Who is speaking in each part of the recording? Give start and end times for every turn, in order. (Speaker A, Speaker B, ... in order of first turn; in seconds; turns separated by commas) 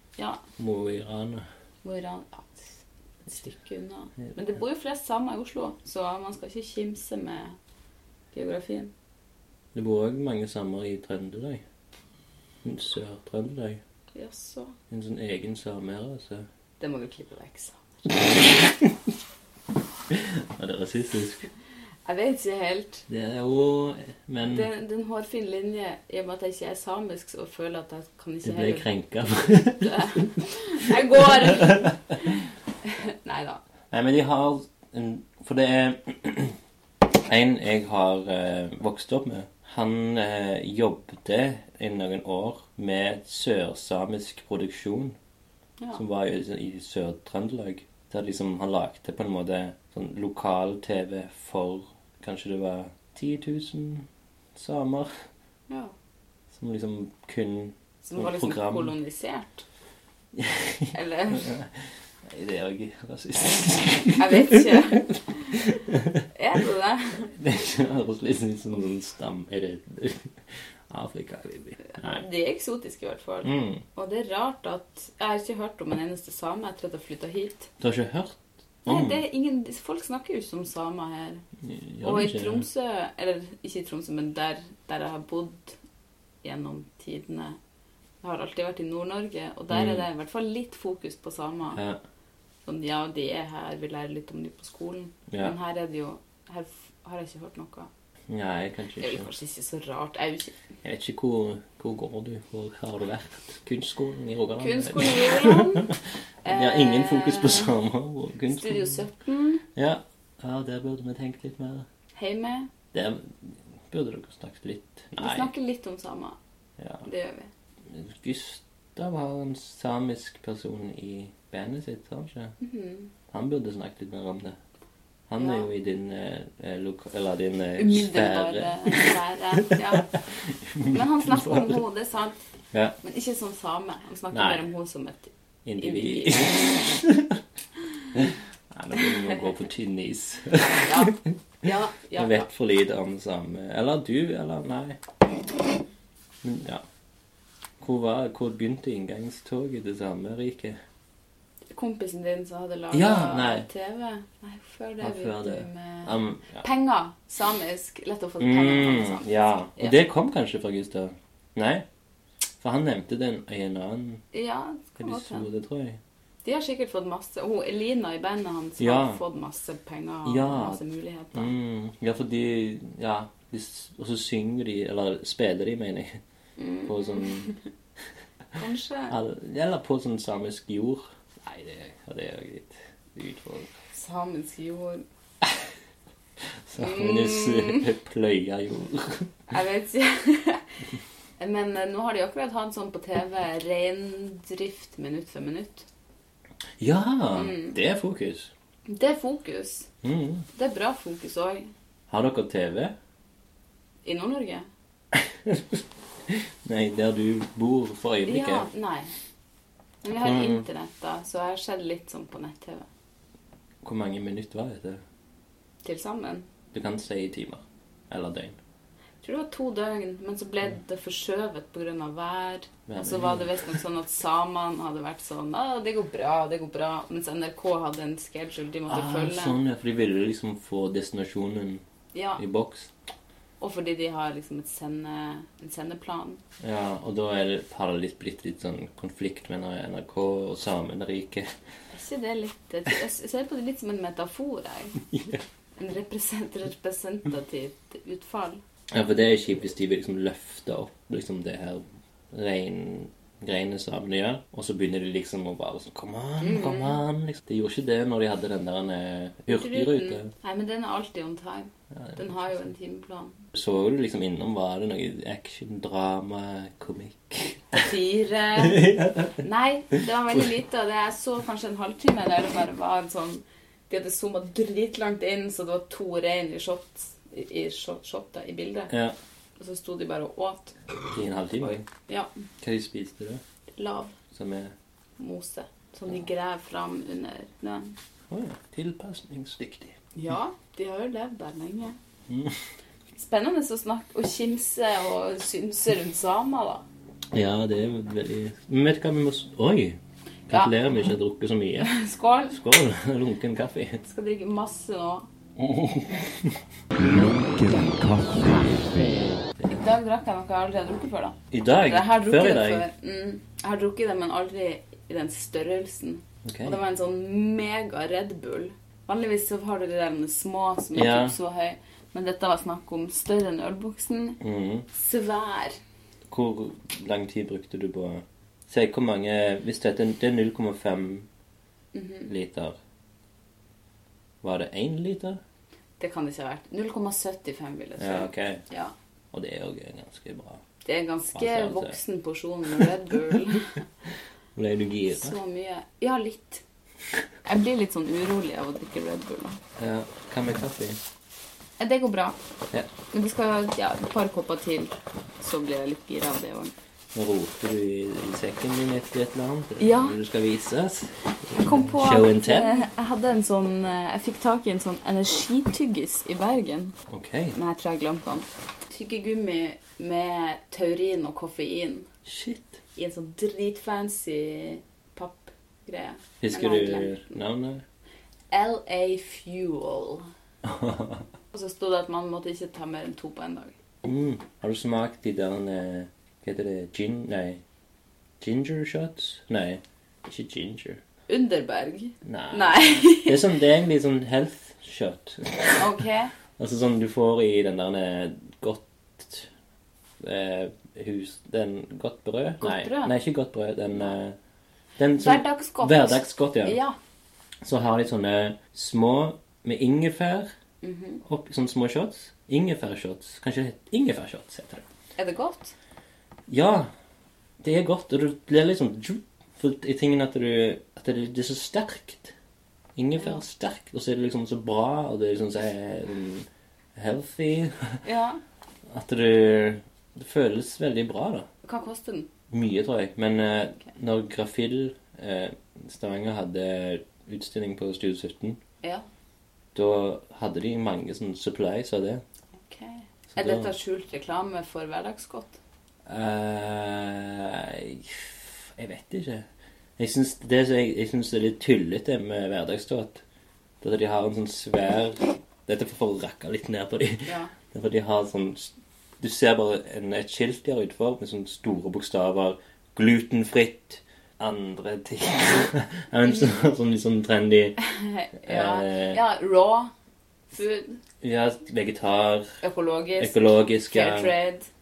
Speaker A: 0.2-0.4, Speaker B: 0.6-1.5, Speaker A: 1.8-7.6, Speaker A: 8.3-8.9, Speaker B: 9.7-11.6, Speaker B: 12.6-13.8, Speaker A: 14.1-14.7, Speaker B: 14.9-16.5, Speaker A: 16.8-18.5, Speaker B: 18.1-19.1, Speaker B: 20.1-21.5, Speaker A: 22.0-23.1, Speaker B: 23.1-24.7, Speaker A: 24.4-28.9, Speaker B: 28.4-30.3, Speaker A: 29.8-33.6, Speaker B: 30.9-32.3, Speaker B: 33.9-36.5, Speaker B: 37.2-45.2, Speaker B: 45.9-55.1, Speaker A: 55.7-55.9, Speaker B: 56.5-58.9, Speaker A: 58.0-59.6, Speaker B: 60.3-66.2, Speaker A: 60.9-61.5, Speaker A: 64.2-65.8, Speaker A: 66.3-67.3, Speaker B: 67.3-70.3, Speaker B: 70.9-72.2, Speaker A: 71.8-77.7, Speaker B: 73.4-73.8, Speaker B: 77.8-79.2, Speaker A: 78.8-81.4, Speaker B: 81.6-82.6, Speaker A: 82.0-85.8, Speaker A: 86.4-87.6, Speaker A: 88.2-91.8, Speaker B: 89.7-90.0, Speaker B: 91.7-92.0, Speaker A: 92.6-97.9, Speaker B: 95.3-95.5, Speaker B: 98.3-99.3, Speaker A: 99.0-100.5, Speaker B: 100.8-109.0, Speaker A: 104.6-105.9, Speaker A: 106.4-107.7, Speaker A: 108.5-109.6, Speaker B: 109.8-111.9, Speaker A: 112.2-112.7, Speaker B: 112.9-115.5, Speaker A: 115.2-116.4, Speaker B: 116.8-117.0, Speaker A: 117.0-117.5, Speaker B: 117.9-122.5, Speaker A: 122.6-123.1, Speaker B: 123.3-124.6, Speaker B: 125.3-129.1, Speaker A: 125.3-125.7, Speaker A: 127.8-130.1, Speaker B: 130.3-131.8, Speaker A: 130.9-132.4, Speaker A: 133.0-136.8, Speaker B: 134.3-134.6, Speaker B: 135.6-137.4, Speaker B: 138.1-141.3, Speaker A: 139.0-139.3, Speaker A: 140.8-142.5, Speaker B: 142.1-145.0, Speaker B: 146.4-146.8, Speaker B: 147.8-150.8, Speaker A: 151.7-160.0, Speaker B: 152.9-153.7, Speaker B: 155.0-156.6, Speaker B: 158.4-161.8, Speaker B: 162.6-164.2, Speaker A: 164.3-165.5, Speaker B: 165.0-166.0, Speaker A: 166.4-171.5, Speaker B: 168.8-169.2, Speaker B: 170.2-170.8, Speaker B: 171.3-176.2, Speaker A: 176.6-177.6, Speaker B: 176.9-177.5, Speaker A: 178.6-179.2, Speaker B: 179.1-183.7, Speaker A: 183.9-185.0, Speaker B: 186.7-189.3, Speaker A: 186.8-187.9, Speaker A: 189.5-190.7, Speaker A: 191.4-195.9, Speaker B: 196.8-198.5, Speaker A: 197.3-197.8, Speaker A: 198.9-199.9, Speaker B: 200.0-200.4, Speaker A: 200.5-201.7, Speaker B: 202.1-202.9, Speaker A: 204.0-204.7, Speaker B: 205.1-208.7, Speaker A: 208.2-209.1, Speaker A: 210.0-212.8, Speaker B: 210.1-210.6, Speaker B: 213.8-215.0, Speaker A: 215.8-216.5, Speaker B: 216.7-218.6, Speaker A: 219.2-229.6, Speaker B: 222.9-223.6, Speaker B: 228.9-231.8, Speaker A: 232.1-232.4, Speaker B: 232.4-232.9, Speaker A: 233.6-236.4, Speaker B: 236.6-241.5, Speaker A: 241.9-245.0, Speaker B: 245.1-245.4, Speaker A: 245.8-248.6, Speaker B: 248.9-260.3, Speaker A: 256.4-257.0, Speaker A: 259.5-263.4, Speaker B: 261.9-262.3, Speaker B: 263.5-267.9, Speaker A: 267.7-278.9, Speaker B: 268.6-269.4, Speaker B: 278.9-279.1, Speaker A: 279.6-280.8, Speaker B: 281.1-281.8, Speaker B: 282.6-283.4, Speaker A: 283.8-284.2, Speaker B: 284.3-284.7, Speaker A: 285.2-287.9, Speaker B: 288.3-289.9, Speaker A: 290.1-292.0, Speaker B: 292.3-292.6, Speaker A: 293.1-296.8, Speaker B: 297.3-301.9, Speaker A: 301.8-302.6, Speaker B: 302.5-304.0, Speaker A: 304.0-305.3, Speaker B: 305.6-306.6, Speaker C: 306.9-309.4, Speaker A: 309.7-325.8, Speaker B: 311.5-312.9, Speaker B: 316.4-316.8, Speaker B: 320.9-321.4, Speaker B: 324.4-324.9, Speaker B: 326.3-331.3, Speaker A: 331.9-332.3, Speaker B: 332.3-332.8, Speaker B: 334.4-335.4, Speaker A: 336.0-338.9, Speaker B: 338.0-338.6, Speaker B: 339.3-340.6, Speaker A: 340.8-343.8, Speaker B: 341.3-342.0, Speaker B: 344.5-345.4, Speaker A: 345.1-346.6, Speaker A: 347.4-349.6, Speaker B: 349.8-351.0, Speaker A: 351.8-352.4, Speaker A: 353.1-356.7, Speaker B: 357.1-362.7, Speaker A: 359.8-360.2, Speaker A: 361.5-366.9, Speaker B: 367.1-367.6, Speaker A: 367.5-372.1, Speaker B: 372.2-372.8, Speaker A: 372.9-377.4, Speaker B: 376.4-377.8, Speaker A: 378.5-380.3, Speaker B: 380.6-381.2, Speaker A: 381.5-383.7, Speaker B: 384.0-387.6, Speaker B: 388.4-391.0, Speaker A: 391.3-393.5, Speaker B: 392.2-396.0, Speaker A: 395.8-396.3, Speaker B: 396.6-399.5, Speaker B: 400.2-404.4, Speaker A: 402.6-403.1, Speaker B: 405.0-406.8, Speaker A: 405.1-406.9, Speaker B: 407.6-410.5, Speaker A: 410.8-411.2, Speaker B: 411.2-414.9, Speaker A: 415.2-415.7, Speaker B: 416.5-416.9, Speaker B: 417.6-422.3, Speaker B: 422.9-428.0, Speaker A: 428.0-428.4, Speaker B: 428.9-431.5, Speaker A: 431.6-432.3, Speaker B: 432.5-438.6, Speaker B: 439.7-442.2, Speaker A: 442.7-445.6, Speaker B: 443.3-443.7, Speaker B: 446.1-449.5, Speaker B: 450.0-453.2, Speaker B: 453.8-467.8, Speaker A: 457.2-457.5, Speaker A: 467.8-469.9, Speaker B: 468.4-469.2, Speaker A: 470.5-471.0, Speaker B: 471.2-472.6, Speaker A: 472.6-474.6, Speaker B: 473.2-474.3